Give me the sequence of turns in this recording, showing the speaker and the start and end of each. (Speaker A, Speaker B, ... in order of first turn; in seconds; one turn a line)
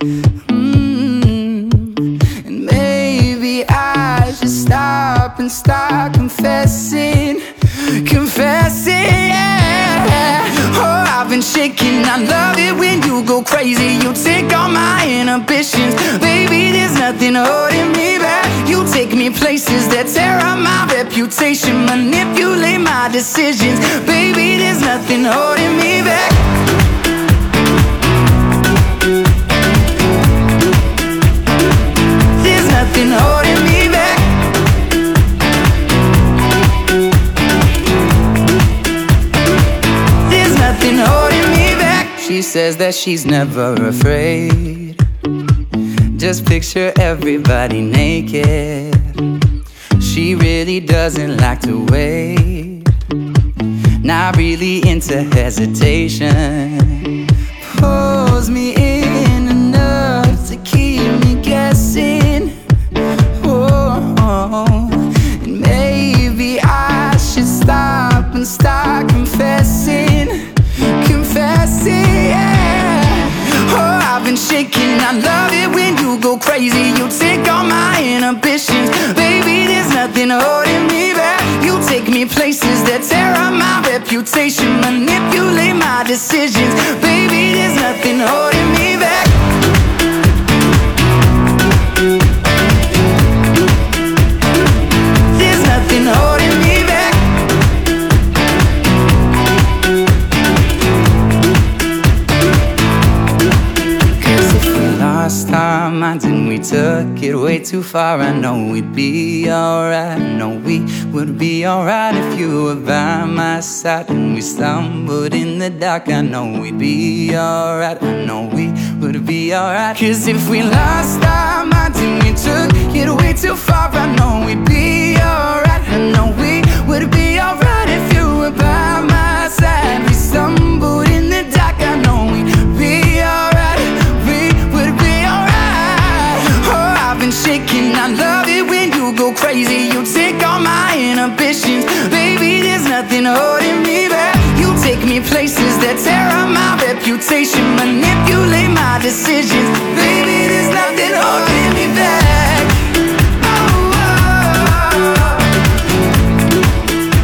Speaker A: 0.3-26.4
Speaker A: 32.2-34.5
Speaker A: 40.2-45.0
Speaker A: 46.0-49.4
Speaker A: 50.0-52.9
Speaker A: 54.0-62.6
Speaker A: 63.4-89.4
Speaker A: 95.1-97.5
Speaker A: 104.1-155.8